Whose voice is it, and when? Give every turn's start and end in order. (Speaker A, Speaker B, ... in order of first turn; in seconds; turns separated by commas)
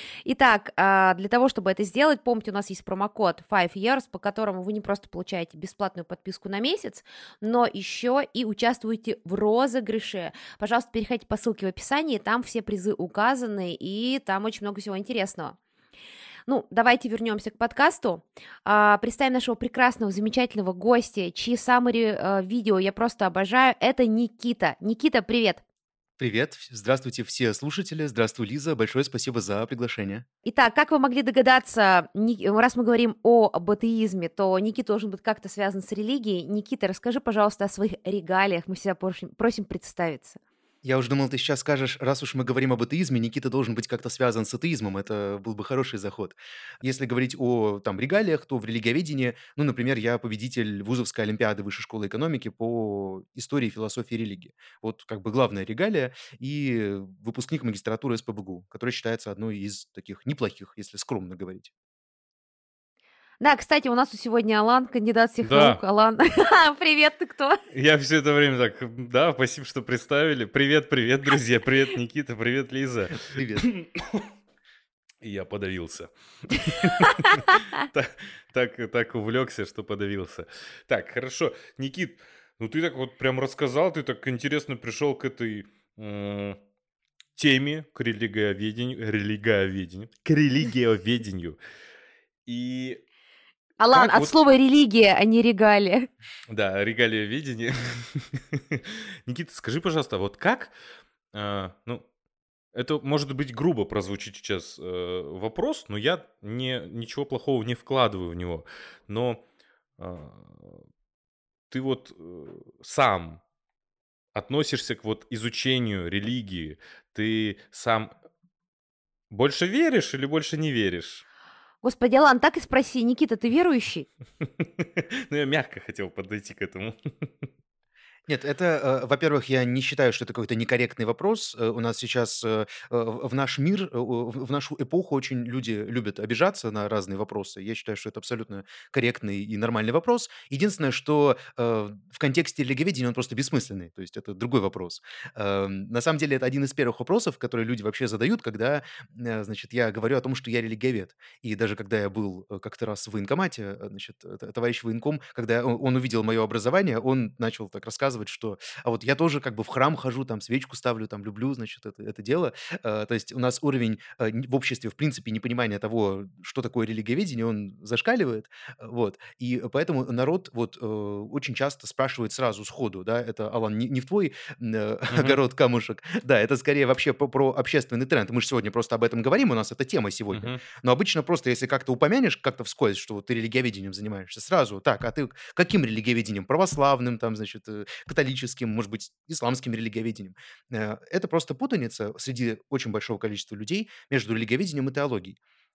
Speaker A: 0.3-15.6, Speaker A: 16.5-25.6, Speaker B: 26.2-30.3, Speaker A: 30.4-40.4, Speaker B: 40.8-61.7, Speaker A: 63.4-67.6, Speaker C: 65.4-65.8, Speaker C: 67.7-74.3, Speaker B: 73.3-73.7, Speaker C: 75.2-86.6, Speaker C: 87.4-91.6, Speaker C: 92.5-93.0, Speaker A: 93.8-96.1, Speaker C: 93.9-94.3, Speaker C: 96.5-100.7, Speaker C: 101.3-102.1, Speaker C: 102.7-109.4, Speaker C: 110.0-110.8, Speaker C: 111.7-113.4, Speaker C: 114.3-118.1, Speaker C: 119.3-121.2, Speaker A: 121.8-124.1, Speaker C: 124.4-127.5, Speaker B: 128.3-195.4, Speaker C: 175.1-175.4, Speaker C: 180.3-180.6